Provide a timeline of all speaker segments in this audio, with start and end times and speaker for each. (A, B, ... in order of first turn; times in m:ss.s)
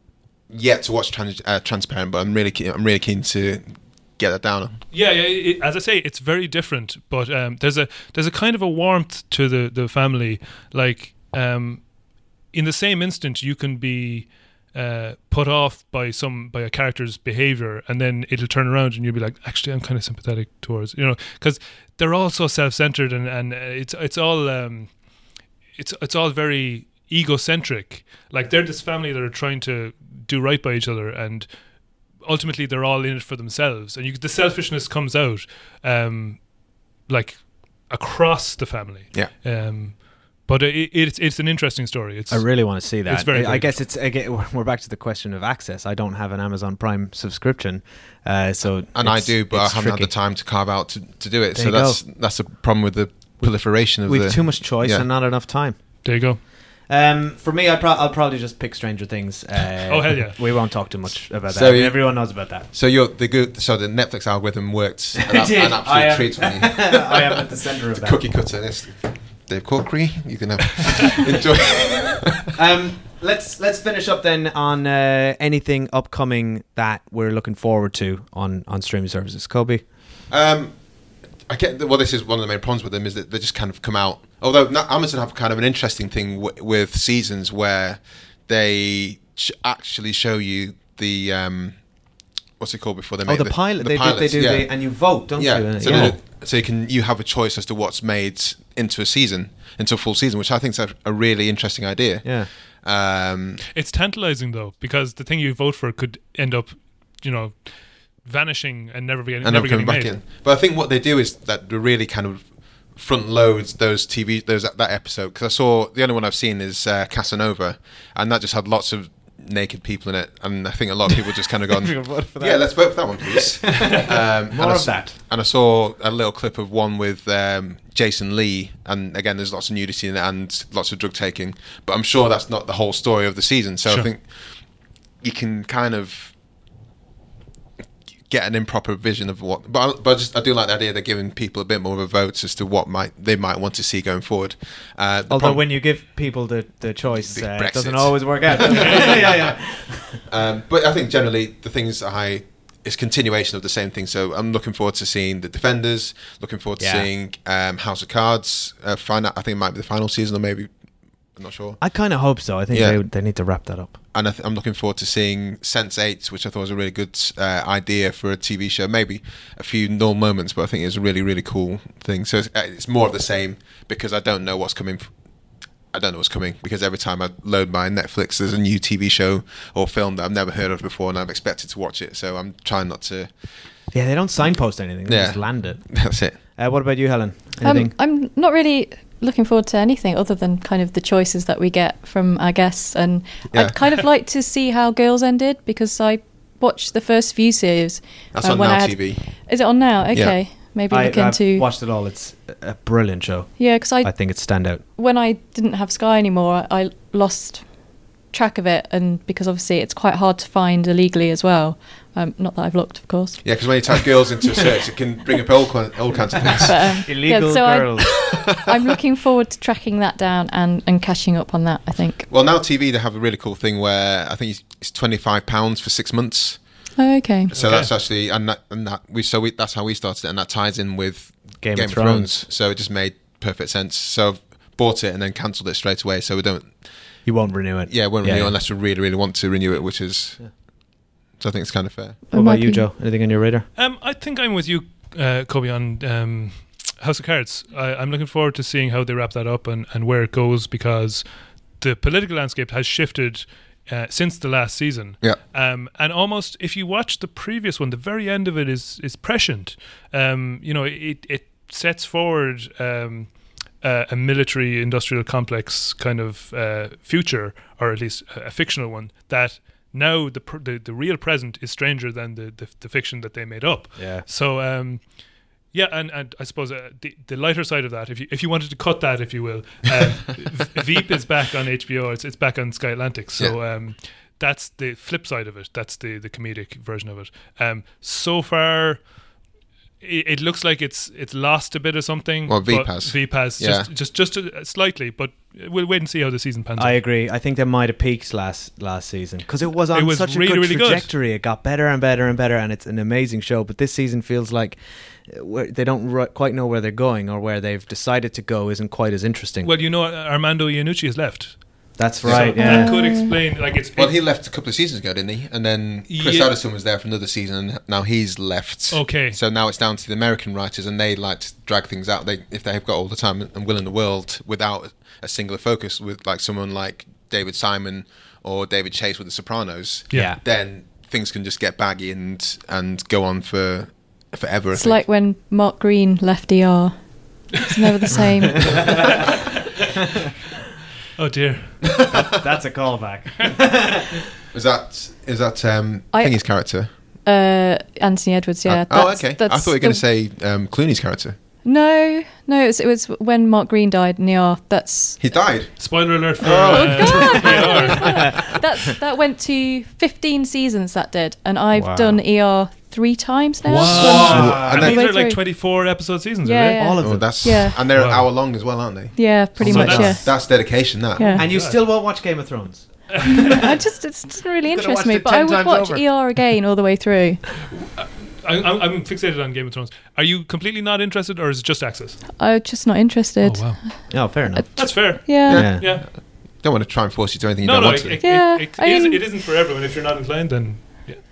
0:00.5-0:04.8 A
0:04.9-0:43.8 B
0:42.3-0:50.1 C
0:48.9-0:55.0 A
0:51.5-0:52.0 C
0:53.4-1:02.7 C
0:56.0-0:56.4 B
0:59.9-1:00.8 B
1:01.5-1:07.2 A
1:05.2-1:08.5 C
1:08.0-1:12.4 A
1:12.5-1:19.9 C
1:20.3-1:43.6 A
1:33.2-1:36.2 C
1:35.8-1:36.2 B
1:42.2-1:42.5 C
1:43.7-1:50.2 B
1:49.4-2:16.4 A
2:01.7-2:03.9 C
2:04.5-2:05.2 C
2:18.2-2:26.0 A
2:25.3-2:30.2 C
2:27.2-3:03.7 A
2:28.7-2:29.1 B
2:36.8-2:37.1 C
2:41.8-2:44.0 C
3:03.9-3:07.9 C
3:05.0-3:06.4 A
3:07.6-3:21.7 D
3:13.5-3:13.8 A
3:18.3-3:20.4 A
3:20.9-3:24.8 C
3:23.6-3:34.0 D
3:33.4-3:37.1 A
3:36.6-3:42.3 D
3:36.7-3:38.3 C
3:42.3-3:46.8 A
3:47.0-3:47.5 D
3:47.5-4:02.2 A
3:47.5-3:47.9 B
3:51.6-3:52.4 C
3:57.2-3:58.6 C
4:02.3-4:02.9 D
4:02.3-4:03.7 C
4:03.8-4:49.4 B
4:34.0-4:34.3 C
4:50.0-4:57.0 B
4:52.4-4:53.9 A
4:56.8-5:09.7 C
4:59.9-5:01.1 B
5:09.6-5:14.2 B
5:12.0-5:13.1 C
5:12.2-5:12.8 A
5:12.6-5:13.4 D
5:14.0-5:35.0 A
5:16.1-5:16.5 B
5:18.9-5:19.4 B
5:30.1-5:30.3 B
5:30.1-5:30.4 C
5:34.7-5:39.0 D
5:41.2-5:42.1 B
5:42.0-5:42.3 A
5:42.0-5:44.1 C
5:44.5-5:46.9 A
5:46.1-5:50.0 D
5:48.6-5:51.4 A
5:51.6-5:55.2 D
5:55.2-5:57.8 A
5:55.8-5:58.5 B
5:56.6-6:05.8 D
5:57.5-5:57.8 C
6:01.7-6:02.2 C
6:03.6-6:06.8 B
6:03.8-6:05.0 C
6:03.9-6:04.9 A
6:06.4-6:07.8 D
6:06.8-6:07.8 C
6:07.0-6:11.5 A
6:07.9-6:08.8 B
6:09.1-6:11.4 D
6:09.6-6:10.3 C
6:09.6-6:10.2 B
6:11.3-6:13.5 C
6:11.4-6:11.8 B
6:13.1-6:13.8 B
6:13.4-6:17.4 D
6:14.6-6:16.3 C
6:18.0-6:22.3 B
6:22.4-6:25.6 D
6:23.4-6:26.1 B
6:24.1-6:25.8 C
6:25.4-6:28.2 A
6:27.6-6:31.2 B
6:28.2-6:29.2 D